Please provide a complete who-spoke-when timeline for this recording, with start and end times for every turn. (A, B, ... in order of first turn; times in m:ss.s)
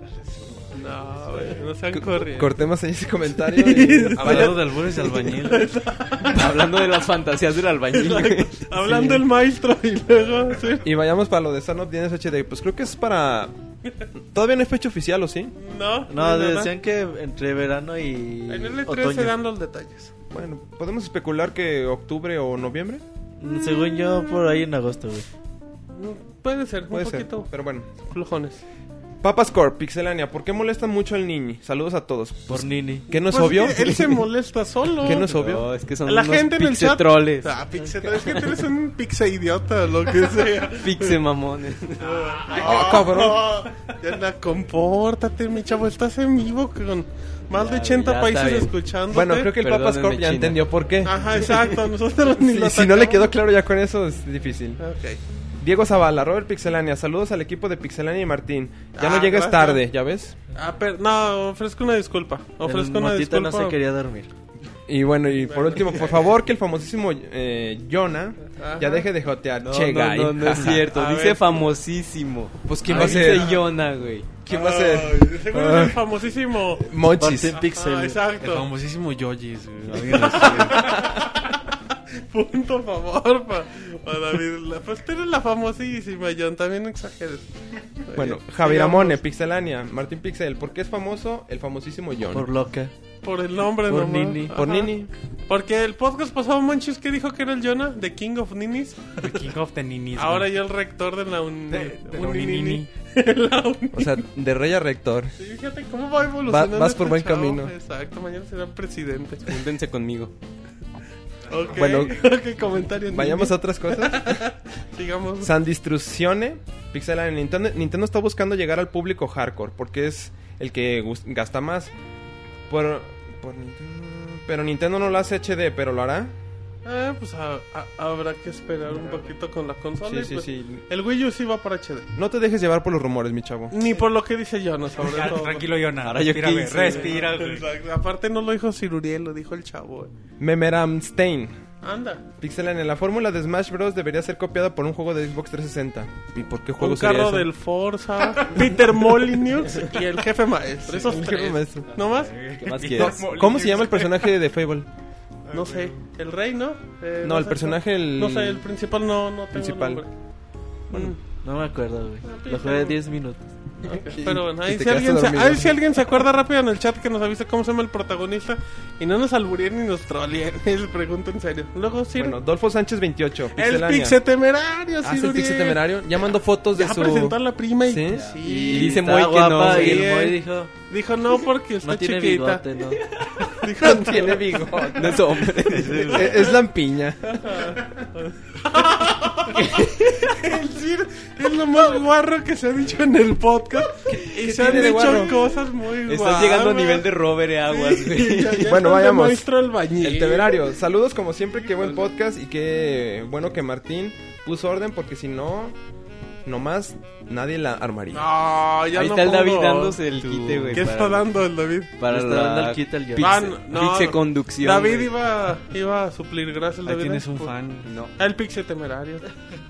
0:00.7-0:02.6 A
0:01.9-0:04.6 B
0:03.4-0:07.0 A
0:04.1-0:05.7 C
0:06.3-0:08.6 D
0:07.9-0:10.9 A
0:10.8-0:13.5 B
0:14.3-0:15.6 B
0:15.6-0:16.7 A
0:16.1-0:19.4 E
0:18.5-0:20.1 A
0:20.3-0:23.0 B
0:23.4-0:25.3 E
0:25.9-0:28.6 A
0:26.9-0:27.9 B
0:29.2-0:34.2 B
0:32.5-0:33.1 E
0:33.1-0:35.3 A
0:35.0-0:35.7 B
0:35.2-0:37.5 D
0:36.1-0:41.2 A
0:40.7-0:42.1 D
0:42.0-0:49.5 A
0:42.1-0:42.9 F
0:42.5-0:43.6 B
0:47.5-0:48.7 D
0:49.1-0:54.8 B
0:49.4-0:50.7 D
0:51.0-0:53.3 A
0:54.8-0:55.2 A
0:55.6-1:00.4 B
0:59.0-0:59.8 A
1:00.6-1:03.8 A
1:02.6-1:04.3 E
1:04.9-1:10.8 B
1:05.3-1:06.3 A
1:08.5-1:09.1 A
1:09.6-1:14.3 D
1:10.8-1:11.8 A
1:12.7-1:13.6 B
1:12.9-1:13.6 A
1:14.4-1:16.1 B
1:14.5-1:16.9 A
1:16.8-1:17.6 B
1:17.2-1:18.2 E
1:17.7-1:18.7 A
1:18.4-1:21.2 C
1:20.0-1:27.5 A
1:28.0-1:29.2 A
1:28.1-1:32.5 B
1:32.3-1:32.9 E
1:33.2-1:34.9 A
1:33.9-1:34.6 E
1:34.5-1:35.1 B
1:35.5-1:39.3 A
1:39.2-1:40.6 F
1:40.2-1:44.2 A
1:41.7-1:42.9 F
1:43.9-1:45.3 B
1:45.4-1:49.5 A
1:46.5-1:47.7 B
1:49.4-1:50.3 D
1:51.5-1:55.5 A
1:51.7-1:52.3 B
1:53.1-1:54.5 B
1:55.4-2:01.9 B
2:02.7-2:06.3 B
2:06.8-2:12.1 A
2:10.0-2:10.9 B
2:12.1-2:13.8 B
2:13.7-2:15.7 A
2:15.0-2:17.7 F
2:16.0-2:17.3 D
2:16.9-2:20.1 A
2:20.4-2:21.6 B
2:21.8-2:22.2 A
2:22.4-2:27.5 B
2:26.8-2:32.4 A
2:30.9-2:31.9 B
2:32.0-2:33.2 D
2:32.3-2:34.3 F
2:32.9-2:34.9 B
2:35.5-2:36.0 F
2:35.5-2:40.1 A
2:37.2-2:38.7 B
2:39.5-2:40.0 B
2:40.9-2:41.2 A
2:41.4-2:43.4 E
2:42.2-2:43.0 A
2:43.8-2:52.4 A
2:43.9-2:45.8 B
2:52.2-2:54.2 B
2:53.6-2:55.8 A
2:55.0-2:58.3 B
2:56.7-3:00.4 A
2:58.2-3:00.2 D
2:58.4-3:00.7 E
3:00.9-3:02.6 A
3:01.8-3:03.0 E
3:03.5-3:04.9 A
3:03.8-3:05.4 B
3:04.8-3:06.4 D
3:05.7-3:06.2 E
3:06.1-3:07.5 B
3:07.3-3:17.1 A
3:09.5-3:10.3 D
3:14.1-3:15.4 B
3:16.1-3:18.8 D
3:17.6-3:20.6 A
3:18.7-3:25.8 B
3:26.4-3:28.3 B
3:28.1-3:30.0 A
3:28.9-3:31.2 D
3:30.2-3:30.8 C
3:30.7-3:31.9 A
3:32.0-3:35.1 D
3:32.0-3:33.4 E
3:33.2-3:37.6 A
3:36.8-3:37.9 C
3:37.8-3:38.1 D
3:38.2-3:39.3 A